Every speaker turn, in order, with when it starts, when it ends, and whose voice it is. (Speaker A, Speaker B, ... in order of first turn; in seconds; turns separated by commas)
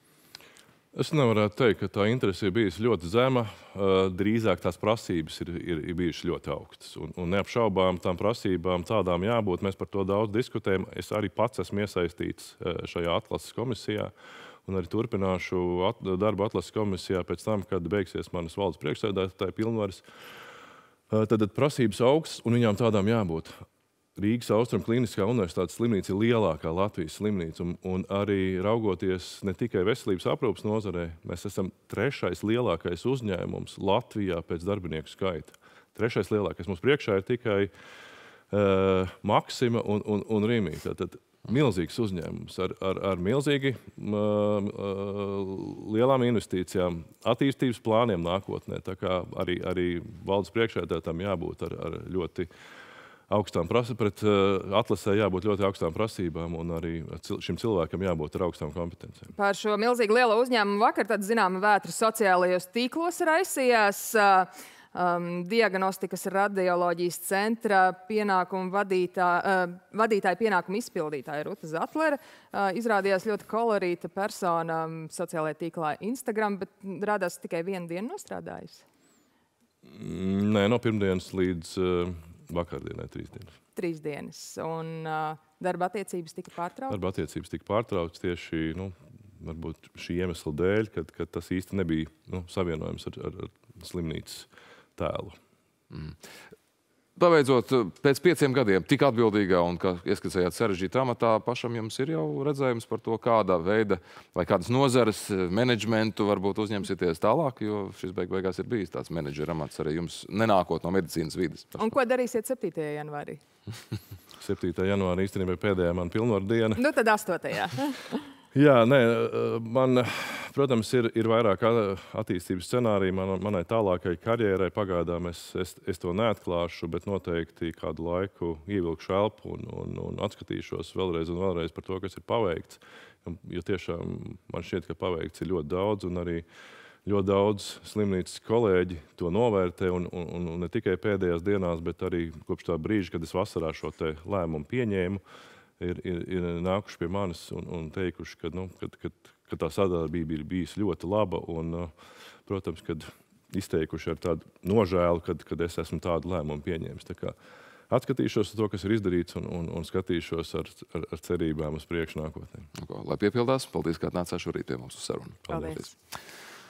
Speaker A: 0.9-14.1, Speaker A: 14.6-20.0, Speaker A: 21.1-23.5, Speaker A: 24.1-37.7, Speaker A: 38.5-52.5, Speaker A: 53.3-59.3, Speaker B: 59.3-78.8, Speaker A: 79.8-83.5, Speaker B: 83.7-87.0, Speaker A: 86.9-95.4, Speaker C: 97.2-111.9, Speaker B: 111.8-113.4, Speaker A: 114.4-116.8, Speaker B: 116.8-118.3, Speaker A: 118.5-136.4, Speaker A: 137.0-145.2, Speaker A: 145.8-151.9, Speaker A: 152.4-157.3, Speaker A: 157.9-162.7, Speaker C: 162.8-165.9, Speaker B: 165.5-165.9